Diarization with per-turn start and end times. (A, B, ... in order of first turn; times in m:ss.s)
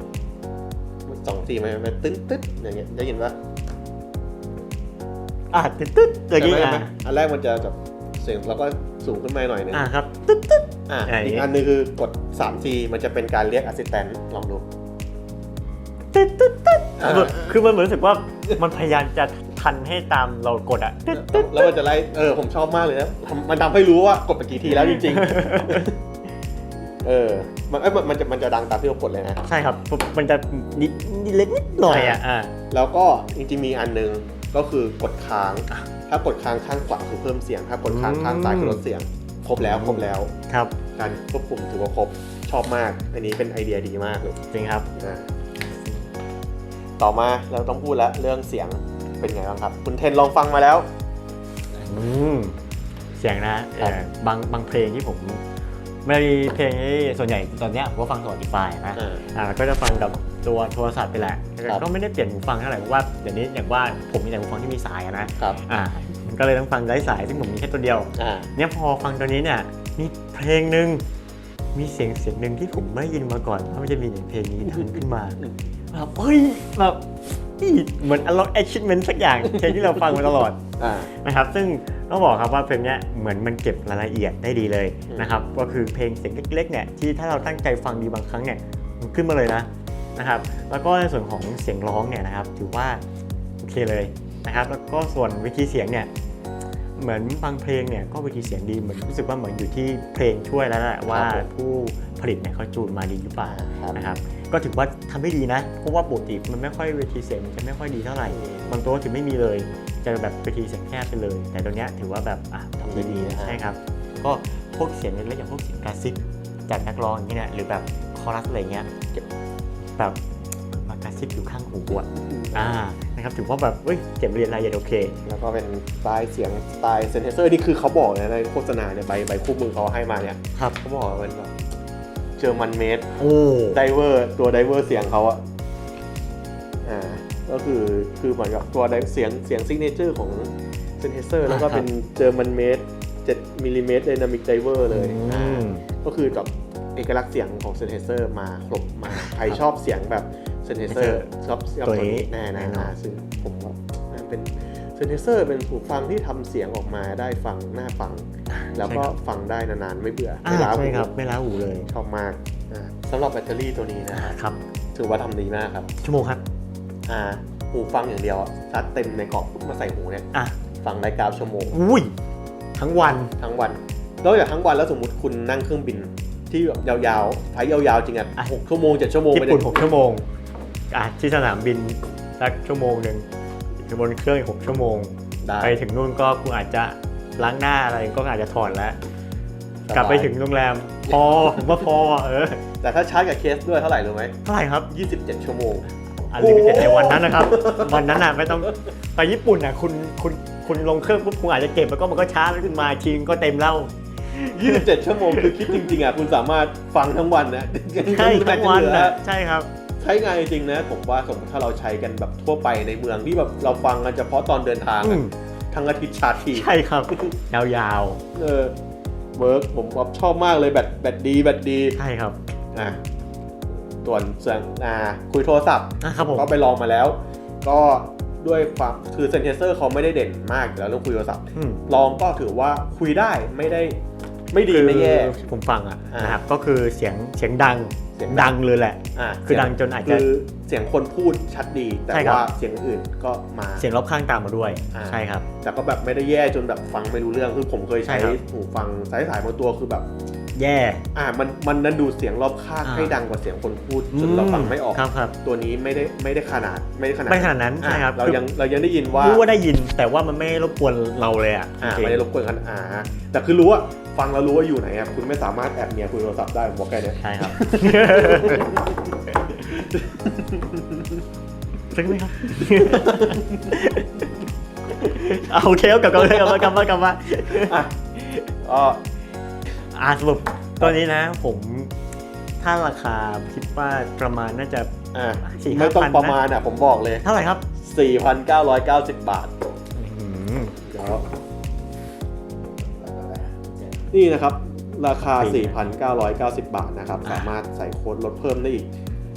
0:01.1-0:03.4 A
0:05.5-0:06.9 B
0:06.4-0:09.8 A
0:09.7-0:11.5 B
0:10.9-0:14.6 A
0:16.1-0:21.8 B
0:17.0-0:17.6 A
0:21.1-0:26.0 A
0:24.7-0:25.9 B
0:27.0-0:29.4 A
0:29.5-0:32.5 B
0:31.9-0:40.3 A
0:37.9-0:38.8 B
0:39.6-0:40.7 B
0:41.0-0:44.4 A
0:44.5-0:44.9 B
0:44.9-0:45.3 A
0:45.6-0:46.1 B
0:47.0-0:50.9 A
0:51.8-0:52.6 B
0:53.2-0:55.4 B
0:56.0-1:11.0 B
0:59.0-0:59.2 A
1:08.2-1:08.5 A
1:11.7-1:15.4 B
1:14.6-1:15.5 A
1:15.9-1:17.1 B
1:17.6-1:20.6 B
1:20.8-1:21.1 A
1:21.1-1:33.0 B
1:25.1-1:25.4 A
1:33.6-1:36.1 B
1:37.0-1:58.9 B
1:41.1-1:41.5 A
1:43.4-1:44.1 A
1:48.3-1:48.8 A
1:52.8-1:53.6 A
2:00.7-2:05.2 B
2:02.1-2:02.8 A
2:05.3-2:11.5 A
2:12.4-2:13.1 A
2:13.2-2:13.8 B
2:13.7-2:15.4 A
2:16.8-2:41.1 A
2:21.5-2:21.8 B
2:24.9-2:25.8 B
2:29.1-2:29.6 B
2:30.9-2:31.3 B
2:31.8-2:32.9 B
2:38.5-2:39.1 B
2:40.4-2:41.9 B
2:41.9-2:44.4 A
2:44.1-2:44.6 B
2:45.0-2:45.9 A
2:46.0-2:46.4 B
2:47.1-2:50.3 A
2:50.8-2:51.8 A
2:51.7-2:52.1 B
2:52.8-2:53.3 B
2:53.4-2:59.7 A
2:59.3-3:00.2 B
3:00.9-3:03.2 B
3:03.8-3:09.0 B
3:05.4-3:05.8 A
3:09.9-3:10.3 A
3:09.9-3:12.6 B
3:12.8-3:14.4 A
3:14.4-3:14.9 B
3:14.9-3:18.3 A
3:16.3-3:26.0 B
3:24.4-3:29.2 A
3:28.0-3:29.7 B
3:30.0-3:37.3 A
3:35.0-3:35.3 B
3:36.5-3:38.2 B
3:38.4-3:38.7 A
3:39.4-3:42.0 A
3:42.0-3:42.4 B
3:42.7-3:43.0 A
3:44.0-3:54.0 A
3:46.0-3:46.5 B
3:51.6-3:51.8 B
3:54.5-3:55.4 A
3:54.7-4:00.3 B
3:56.1-3:56.4 A
3:58.2-3:58.6 A
3:59.2-4:03.9 A
4:02.1-4:02.5 B
4:03.8-4:05.4 B
4:04.9-4:10.1 A
4:08.0-4:08.4 B
4:10.6-4:11.0 B
4:11.1-4:19.4 A
4:12.8-4:13.2 B
4:14.1-4:15.3 B
4:17.3-4:18.4 B
4:19.2-4:22.2 B
4:21.8-4:31.2 A
4:27.2-4:28.8 B
4:31.9-4:34.3 B
4:32.8-4:33.7 A
4:35.0-4:38.4 B
4:36.2-4:36.7 A
4:37.5-4:39.0 A
4:39.9-4:41.9 B
4:42.6-4:44.9 B
4:45.1-4:49.5 A
4:45.4-4:46.4 B
4:47.2-4:47.6 B
4:50.0-4:50.8 B
4:50.8-4:51.3 A
4:53.0-4:53.5 A
4:54.1-4:58.9 A
4:55.3-4:55.9 B
4:57.2-4:57.5 B